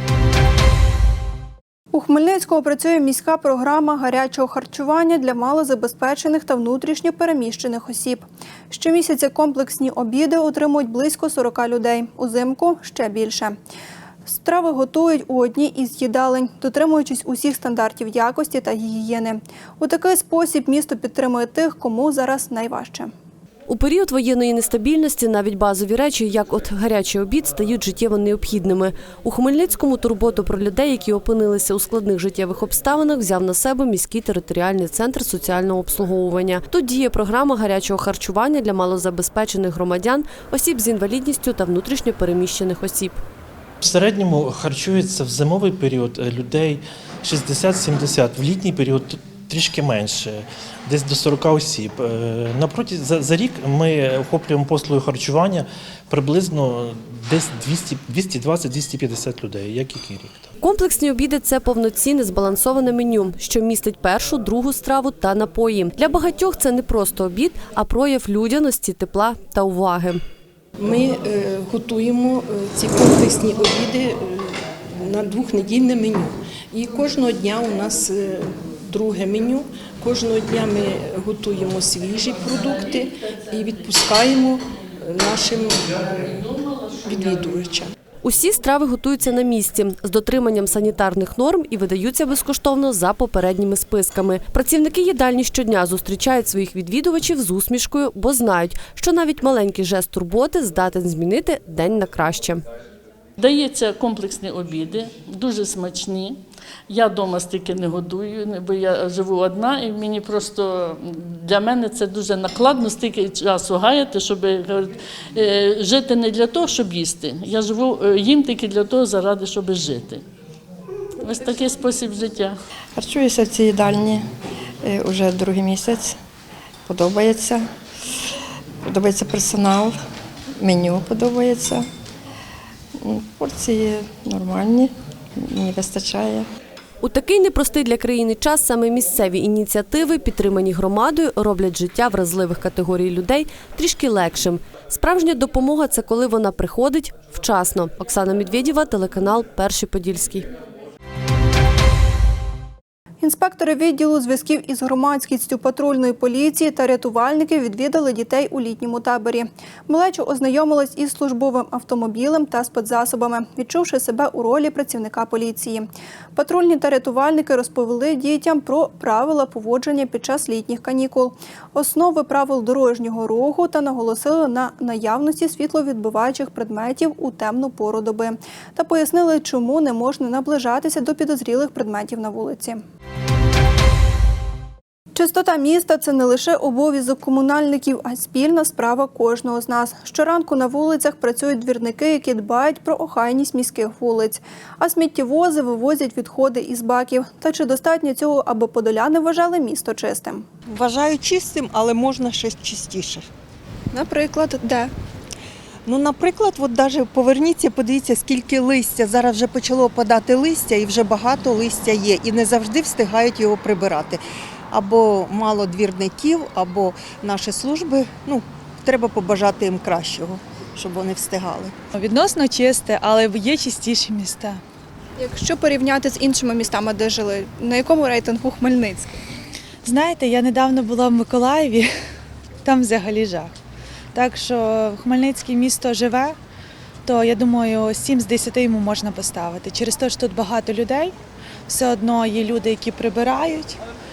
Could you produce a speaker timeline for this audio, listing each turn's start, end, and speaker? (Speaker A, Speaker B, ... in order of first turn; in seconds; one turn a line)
Speaker A: 1.9-13.6
Speaker A: 14.2-23.1
Speaker B: 23.7-43.2
Speaker C: 43.8-60.5
Speaker B: 60.6-70.2
Speaker D: 70.8-86.4
Speaker D: 87.0-87.9
Speaker B: 88.2-102.6
Speaker E: 103.4-120.2
Speaker E: 121.2-122.5
Speaker F: 123.0-124.2
Speaker F: 124.8-126.2
Speaker F: 126.9-127.6
Speaker F: 128.8-130.0
Speaker F: 130.6-131.9
Speaker F: 133.0-136.5
Speaker B: 137.0-150.4
Speaker A: 153.2-182.8
Speaker A: 185.1-200.4
Speaker G: 200.7-203.2
Speaker A: 203.9-204.9
Speaker G: 205.9-214.2
Speaker G: 214.7-221.7
Speaker H: 221.9-224.6
Speaker A: 225.2-229.2
Speaker H: 229.8-231.9
Speaker H: 232.6-233.5
Speaker H: 234.1-236.4
Speaker H: 237.0-241.1
Speaker H: 241.7-243.8